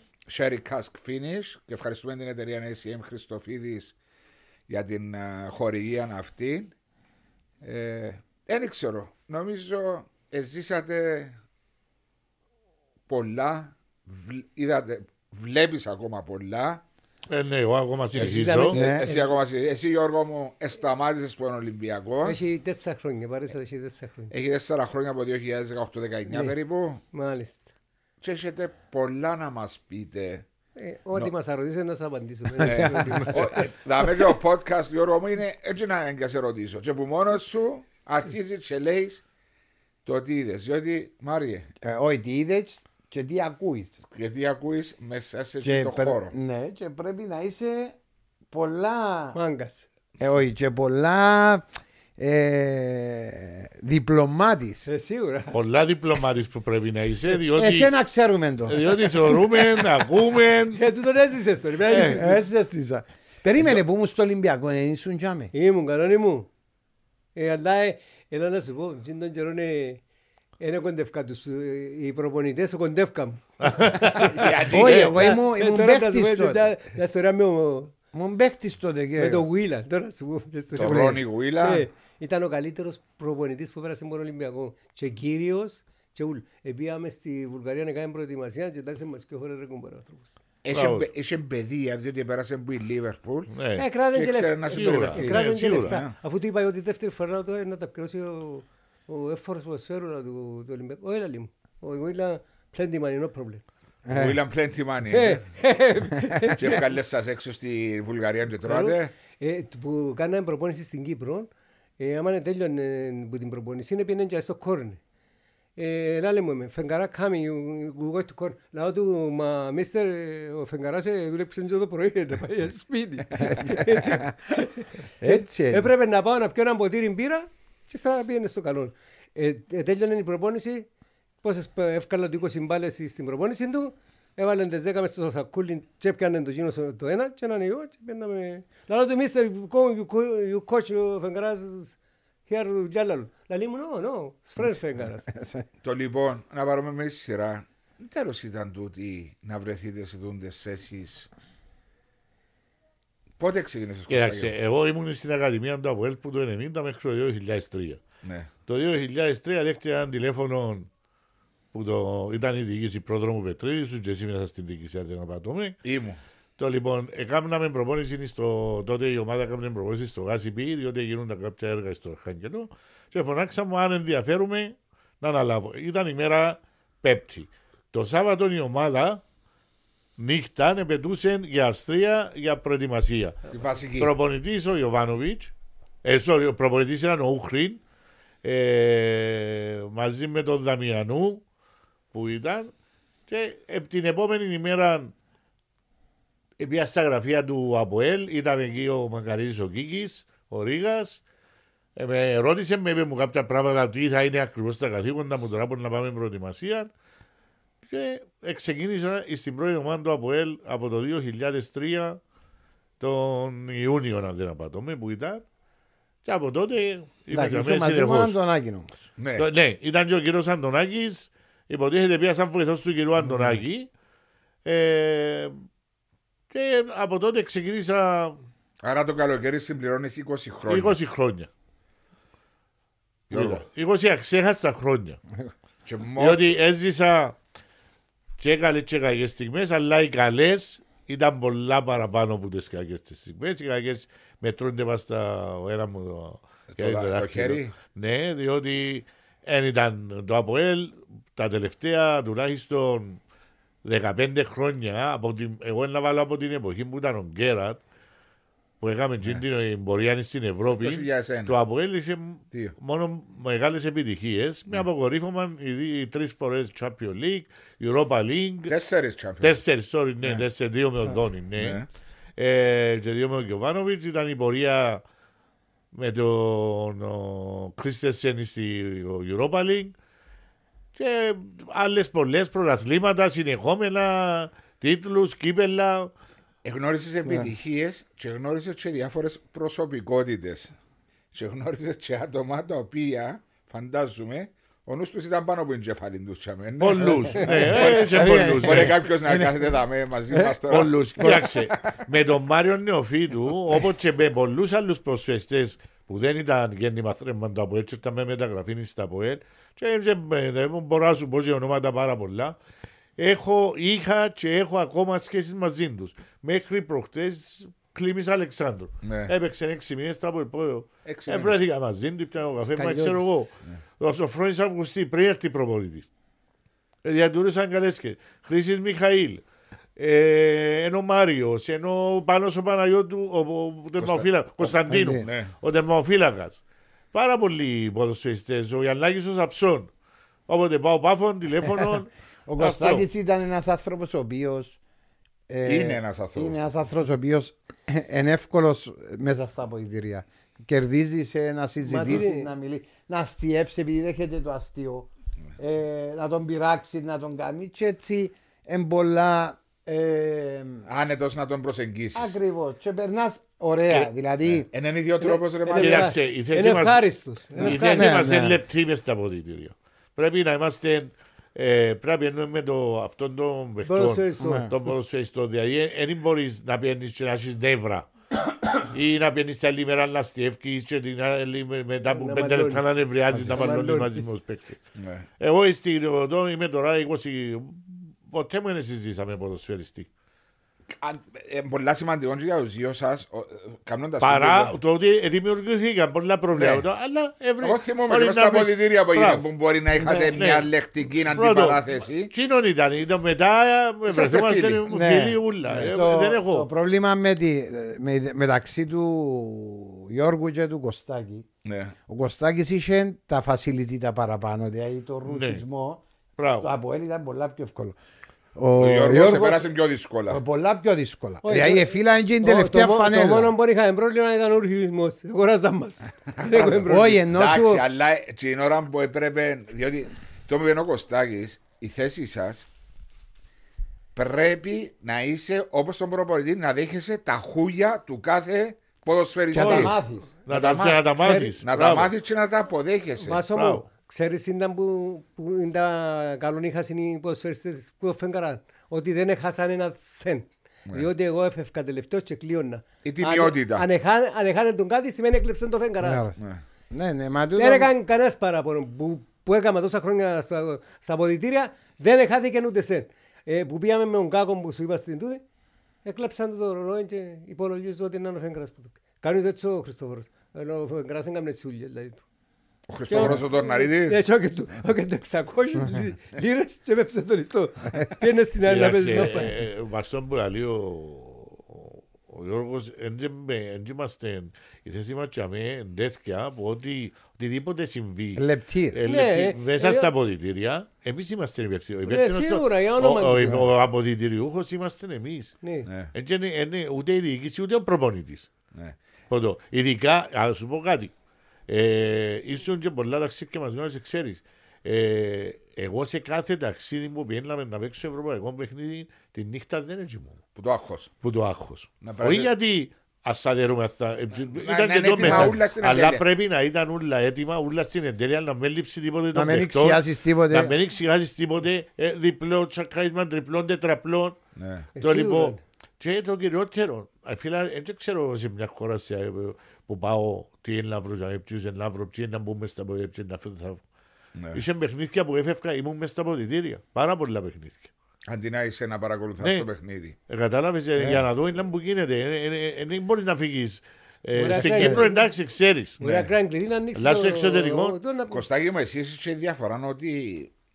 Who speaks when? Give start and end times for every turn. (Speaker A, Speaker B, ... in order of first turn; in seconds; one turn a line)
Speaker A: 0.3-4.0
Speaker A: 4.7-6.7
Speaker A: 7.6-11.4
Speaker A: 13.1-16.8
Speaker B: 17.3-18.8
Speaker A: 18.1-22.4
Speaker C: 18.2-19.3
Speaker D: 18.7-19.1
Speaker C: 22.2-24.3
Speaker A: 24.3-27.0
Speaker C: 26.3-26.6
Speaker C: 27.1-27.7
Speaker A: 28.2-30.5
Speaker C: 30.8-33.6
Speaker D: 32.6-34.2
Speaker A: 32.6-39.2
Speaker A: 40.0-41.7
Speaker D: 41.8-44.0
Speaker A: 44.1-46.3
Speaker D: 45.6-48.0
Speaker D: 48.5-49.4
Speaker C: 49.3-49.9
Speaker D: 50.2-54.9
Speaker C: 54.9-55.6
Speaker B: 55.5-57.9
Speaker D: 57.5-59.0
Speaker B: 58.6-60.8
Speaker C: 60.7-62.4
Speaker B: 61.9-62.2
Speaker D: 62.1-65.5
Speaker C: 65.5-66.5
Speaker C: 67.3-70.0
Speaker C: 70.6-77.9
Speaker B: 73.7-75.1
Speaker A: 74.4-75.3
Speaker D: 74.6-76.7
Speaker D: 78.1-79.5
Speaker C: 79.2-90.3
Speaker A: 80.8-81.8
Speaker D: 80.8-81.2
Speaker A: 90.6-93.5
Speaker B: 90.7-91.1
Speaker B: 93.5-93.8
Speaker C: 93.8-103.6
Speaker A: 94.1-96.2
Speaker B: 94.7-96.0
Speaker D: 104.1-104.4
Speaker A: 104.1-105.4
Speaker C: 105.1-106.8
Speaker A: 106.5-109.1
Speaker C: 108.6-115.0
Speaker C: 115.8-130.9
Speaker D: 123.4-124.3
Speaker D: 125.2-125.9
Speaker C: 131.4-145.3
Speaker D: 145.3-145.7
Speaker A: 145.8-151.3
Speaker A: 153.4-154.5
Speaker B: 154.1-158.0
Speaker A: 158.2-158.5
Speaker B: 158.7-160.9
Speaker B: 161.7-165.8
Speaker A: 165.8-166.2
Speaker B: 166.6-179.2
Speaker B: 180.2-185.5
Speaker A: 183.5-184.1
Speaker B: 186.0-187.8
Speaker B: 188.4-191.4
Speaker B: 192.1-192.7
Speaker B: 193.3-195.1
Speaker B: 196.6-201.2
Speaker B: 202.0-206.9
Speaker B: 207.9-212.2
Speaker B: 213.0-215.4
Speaker B: 216.2-218.4
Speaker D: 217.3-218.9
Speaker A: 219.2-219.5
Speaker B: 219.4-223.9
Speaker B: 224.7-225.6
Speaker B: 226.5-228.4
Speaker A: 228.8-230.9
Speaker B: 230.7-231.5
Speaker A: 233.3-233.6
Speaker B: 233.3-235.2
Speaker A: 235.8-236.5
Speaker B: 236.2-237.4
Speaker B: 238.4-253.2
Speaker A: 246.7-247.7
Speaker B: 253.8-257.8
Speaker B: 258.8-268.7
Speaker A: 260.8-261.5
Speaker A: 268.7-269.6
Speaker B: 269.4-271.8
Speaker A: 271.6-271.9
Speaker B: 272.4-275.0
Speaker B: 275.9-279.9
Speaker B: 281.0-286.1
Speaker A: 286.6-290.7
Speaker A: 291.3-301.9
Speaker B: 296.8-299.0
Speaker D: 297.3-299.8
Speaker B: 300.7-312.6
Speaker B: 313.2-326.1
Speaker A: 319.0-319.3
Speaker A: 321.1-321.6
Speaker D: 322.6-323.4
Speaker B: 327.0-329.4
Speaker B: 330.0-336.6
Speaker A: 334.0-334.2
Speaker D: 334.9-335.2
Speaker A: 335.2-335.5
Speaker B: 337.1-339.9
Speaker B: 340.5-343.1
Speaker D: 342.5-344.8
Speaker D: 345.5-360.9
Speaker A: 345.6-346.6
Speaker C: 351.8-352.5
Speaker A: 360.9-362.4
Speaker D: 362.1-364.7
Speaker A: 364.4-366.1
Speaker B: 365.7-367.0
Speaker C: 365.7-368.2
Speaker D: 367.5-368.6
Speaker B: 367.6-378.1
Speaker C: 373.9-374.7
Speaker D: 374.4-374.7
Speaker B: 378.7-384.8
Speaker C: 382.1-384.3
Speaker D: 383.3-383.7
Speaker A: 385.0-385.3
Speaker B: 385.4-390.1
Speaker A: 391.0-394.7
Speaker B: 394.2-399.4
Speaker A: 396.6-396.9
Speaker A: 397.6-402.3
Speaker D: 400.0-400.3
Speaker B: 400.1-406.7
Speaker A: 404.1-404.9
Speaker D: 404.9-411.5
Speaker A: 411.6-411.9
Speaker D: 412.1-416.0
Speaker B: 415.3-415.6
Speaker B: 416.4-416.7
Speaker D: 416.6-418.0
Speaker D: 418.6-419.7
Speaker A: 418.8-420.4
Speaker D: 420.3-423.5
Speaker C: 421.4-427.2
Speaker A: 426.5-432.7
Speaker D: 426.5-427.8
Speaker A: 434.1-440.0
Speaker D: 439.5-440.3
Speaker B: 439.5-442.1
Speaker A: 440.5-441.0
Speaker C: 441.2-441.5
Speaker A: 441.6-443.4
Speaker C: 443.2-456.2
Speaker B: 443.5-443.8
Speaker A: 453.0-453.9
Speaker D: 456.0-456.4
Speaker D: 456.9-457.9
Speaker C: 457.6-465.4
Speaker C: 466.1-472.2
Speaker A: 472.9-474.2
Speaker C: 473.1-479.5
Speaker D: 473.1-473.4
Speaker B: 478.7-495.6
Speaker D: 488.4-489.0
Speaker C: 489.1-490.1
Speaker C: 492.1-493.6
Speaker C: 495.6-495.9
Speaker A: 495.9-496.1
Speaker B: 496.1-498.5
Speaker B: 499.3-501.1
Speaker B: 501.7-510.4
Speaker A: 510.6-511.1
Speaker B: 511.2-524.4
Speaker A: 512.0-512.5
Speaker A: 514.6-516.2
Speaker D: 515.2-515.6
Speaker D: 519.3-520.8
Speaker A: 524.6-524.9
Speaker C: 525.0-525.6
Speaker B: 525.0-533.8
Speaker A: 534.4-534.6
Speaker B: 534.5-537.9
Speaker A: 538.3-540.2
Speaker B: 539.4-539.7
Speaker B: 540.3-546.0
Speaker C: 544.4-545.2
Speaker C: 546.0-548.5
Speaker A: 546.0-546.3
Speaker B: 547.0-548.0
Speaker A: 548.3-550.5